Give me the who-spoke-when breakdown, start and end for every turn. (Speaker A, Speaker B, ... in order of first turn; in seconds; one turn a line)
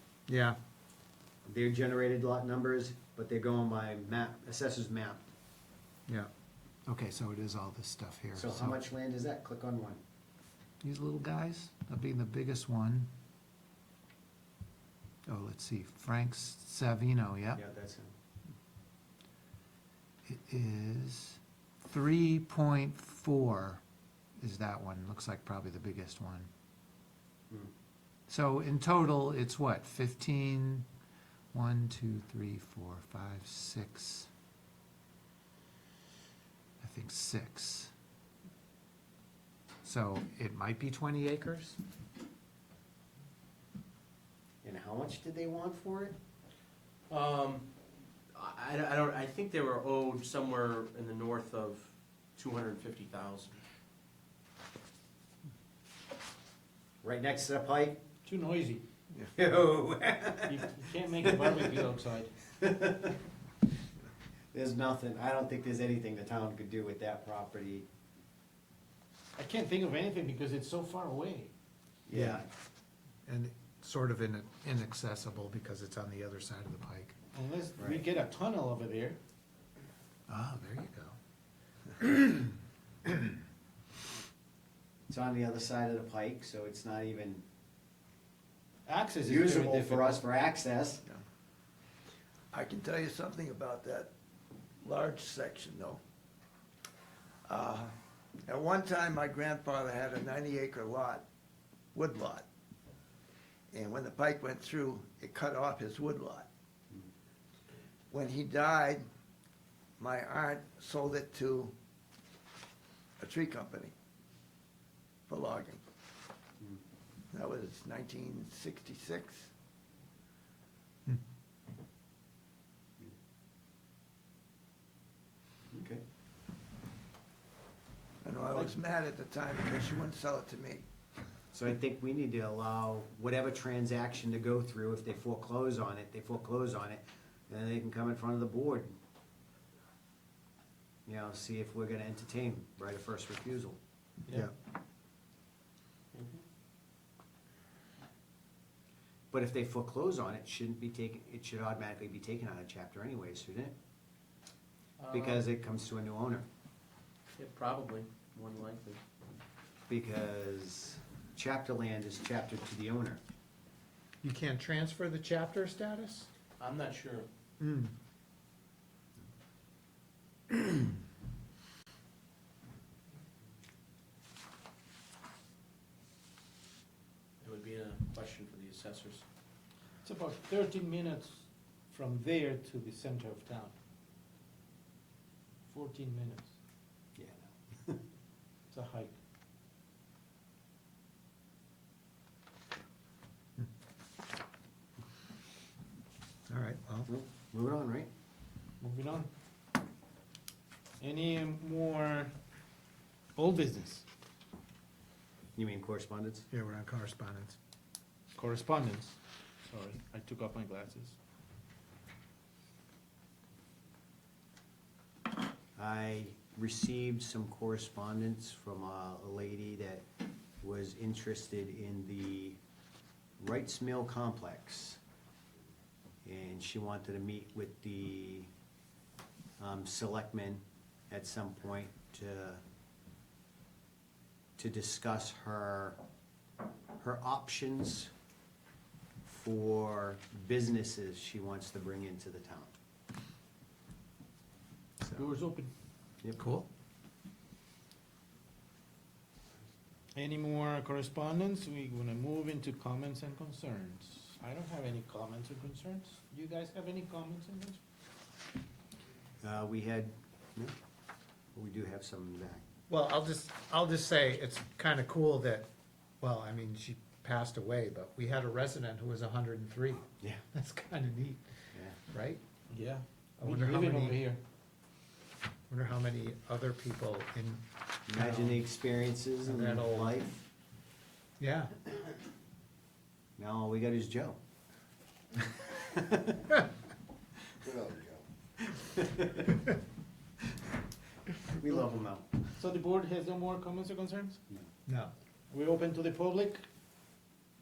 Speaker A: 0.3-0.6
Speaker B: 1.4-5.2
Speaker A: 6.9-8.8
Speaker B: 8.3-10.0
Speaker A: 10.8-13.1
Speaker A: 15.3-17.6
Speaker B: 17.6-18.1
Speaker A: 20.2-23.8
Speaker A: 24.4-26.5
Speaker A: 28.3-30.9
Speaker A: 31.5-34.3
Speaker A: 36.8-37.9
Speaker A: 39.8-41.8
Speaker B: 44.6-46.1
Speaker C: 47.1-47.7
Speaker C: 48.3-53.6
Speaker B: 57.0-58.0
Speaker D: 58.2-58.8
Speaker B: 59.3-61.8
Speaker D: 60.4-62.3
Speaker B: 62.6-63.2
Speaker B: 64.5-67.9
Speaker D: 69.3-71.5
Speaker B: 72.1-72.5
Speaker A: 72.1-72.4
Speaker A: 73.2-77.1
Speaker D: 77.3-79.2
Speaker B: 77.8-78.0
Speaker A: 80.3-81.2
Speaker A: 82.0-82.5
Speaker A: 83.1-83.3
Speaker B: 85.1-87.4
Speaker D: 88.8-90.2
Speaker B: 89.2-91.0
Speaker E: 92.5-94.1
Speaker E: 94.8-96.0
Speaker E: 97.5-97.9
Speaker E: 98.5-101.2
Speaker E: 101.9-102.5
Speaker E: 103.7-106.5
Speaker E: 108.1-109.0
Speaker E: 110.0-111.7
Speaker E: 113.2-113.9
Speaker E: 115.3-115.8
Speaker E: 117.3-119.5
Speaker B: 125.7-126.0
Speaker E: 128.2-130.8
Speaker B: 131.5-138.9
Speaker B: 141.1-143.8
Speaker C: 146.1-146.4
Speaker B: 149.3-153.7
Speaker C: 155.0-155.4
Speaker B: 155.1-156.5
Speaker C: 157.3-159.0
Speaker B: 159.9-163.2
Speaker A: 164.2-166.3
Speaker C: 166.6-167.3
Speaker A: 167.6-167.9
Speaker C: 177.4-179.2
Speaker D: 180.0-183.7
Speaker D: 185.7-186.5
Speaker B: 187.2-188.0
Speaker D: 188.7-189.2
Speaker A: 196.5-197.1
Speaker B: 197.1-198.1
Speaker D: 198.8-199.3
Speaker D: 201.0-202.3
Speaker D: 203.3-204.0
Speaker B: 205.6-206.5
Speaker A: 206.5-207.5
Speaker D: 208.3-211.2
Speaker B: 215.8-220.0
Speaker B: 220.6-222.6
Speaker B: 223.4-225.0
Speaker B: 226.2-228.5
Speaker B: 229.6-232.6
Speaker B: 234.6-236.0
Speaker B: 237.0-238.1
Speaker B: 239.2-242.7
Speaker D: 245.1-245.7
Speaker A: 246.4-246.7
Speaker D: 250.1-257.8
Speaker B: 259.4-260.7
Speaker B: 261.5-262.6
Speaker A: 262.9-265.7
Speaker A: 266.2-271.4
Speaker A: 272.1-272.4
Speaker D: 272.7-274.4
Speaker A: 273.4-274.2
Speaker A: 275.7-278.6
Speaker B: 278.1-280.4
Speaker A: 279.4-280.1
Speaker A: 281.4-281.8
Speaker B: 283.4-284.4
Speaker B: 285.4-286.5
Speaker B: 287.6-288.2
Speaker B: 288.7-289.6
Speaker B: 291.5-292.5
Speaker D: 292.6-294.4
Speaker A: 294.9-295.1
Speaker D: 295.5-296.6